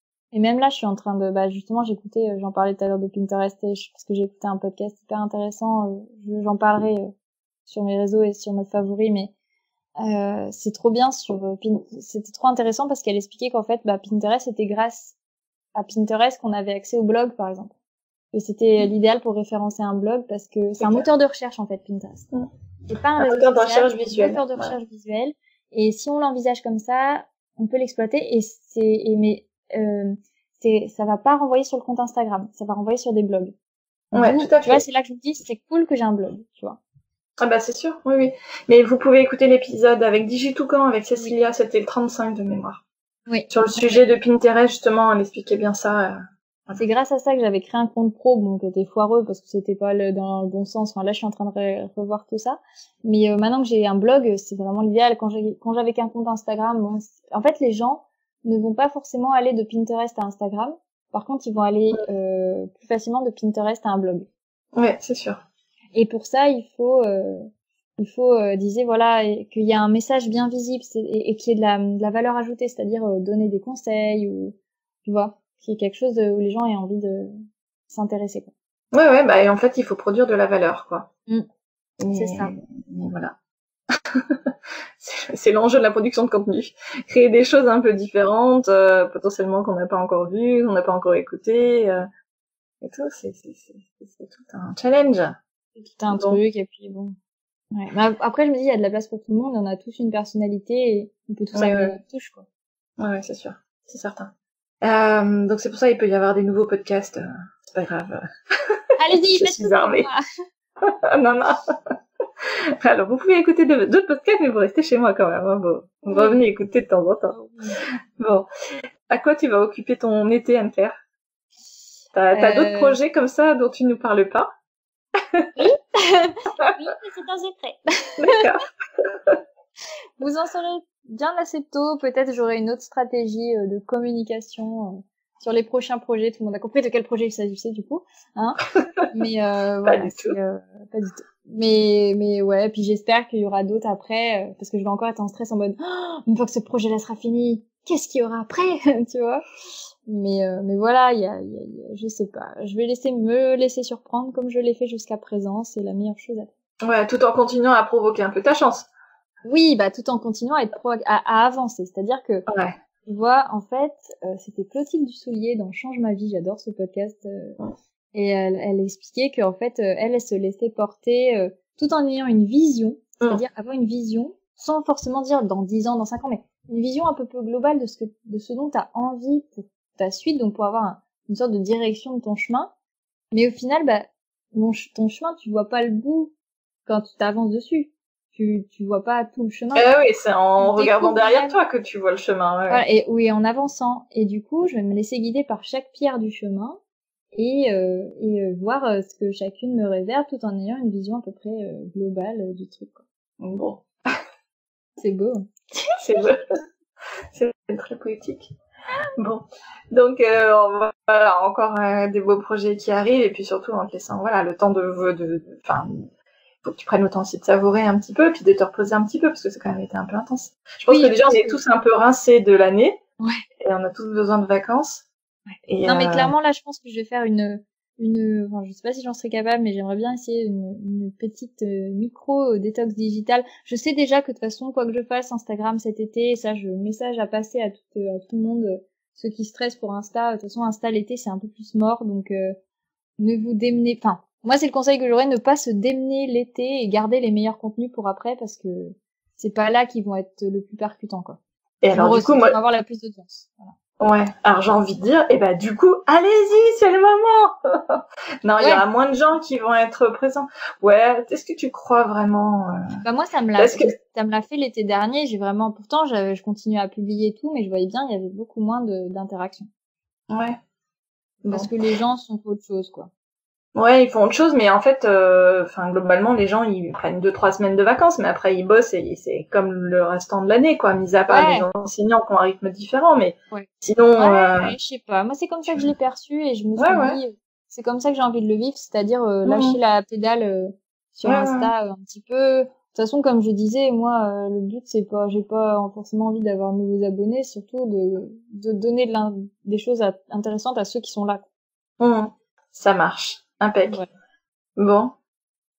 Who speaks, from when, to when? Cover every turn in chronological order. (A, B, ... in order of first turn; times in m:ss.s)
0:00.3-0:07.1 A
0:07.6-0:09.3 A
0:10.0-0:15.1 A
0:15.7-0:17.7 A
0:18.3-0:22.3 A
0:20.8-0:21.0 B
0:22.9-0:33.5 A
0:23.2-0:24.7 B
0:34.1-0:34.8 B
0:34.1-0:36.8 A
0:37.4-0:42.8 B
0:43.3-0:44.0 A
0:43.5-0:46.8 B
0:46.8-1:04.3 A
1:04.8-1:05.4 B
1:05.9-1:17.3 A
1:17.9-1:18.5 A
1:18.9-1:21.1 B
1:22.0-1:23.3 B
1:22.1-1:22.5 A
1:24.0-1:32.0 B
1:32.8-1:35.4 B
1:35.8-1:37.2 A
1:36.1-1:36.4 B
1:37.7-1:42.4 A
1:41.5-1:42.0 B
1:43.0-1:44.3 B
1:44.8-1:48.2 B
1:49.0-1:50.2 A
1:49.2-1:50.1 B
1:50.8-1:51.9 B
1:52.8-1:57.4 B
1:56.1-1:56.4 A
1:57.3-1:57.8 A
1:58.2-1:58.5 B
1:59.1-2:01.0 B
2:02.1-2:04.5 B
2:02.3-2:03.0 A
2:05.6-2:08.4 A
2:08.2-2:09.4 B
2:10.2-2:29.4 A
2:19.8-2:20.4 B
2:30.1-2:36.5 A
2:36.8-2:38.9 B
2:39.4-2:42.4 A
2:42.5-2:42.7 B
2:43.0-2:47.6 A
2:48.1-3:02.7 A
3:03.3-3:06.3 A
3:06.8-3:09.9 A
3:09.7-3:12.8 B
3:10.6-3:11.6 A
3:12.7-3:16.8 A
3:17.3-3:23.0 A
3:23.4-3:23.8 B
3:25.0-3:26.1 A
3:26.0-3:26.4 B
3:27.3-3:28.5 B
3:29.2-3:36.0 B
3:36.6-3:43.0 B
3:40.9-3:41.6 A
3:43.6-3:45.0 B
3:45.5-4:02.6 A
3:45.7-3:46.3 B
4:03.2-4:11.4 A
4:11.8-4:12.6 B
4:11.9-4:13.7 A
4:14.0-4:22.9 B
4:23.0-4:29.7 A
4:23.6-4:23.9 B
4:30.3-4:30.6 B
4:31.4-4:31.7 B
4:31.5-4:33.1 A
4:33.7-4:44.7 B
4:41.3-4:41.7 A
4:43.5-5:01.4 A
4:46.8-4:47.2 B
4:49.4-4:49.8 B
4:51.2-4:51.7 B
5:02.0-5:04.0 B
5:04.8-5:05.1 B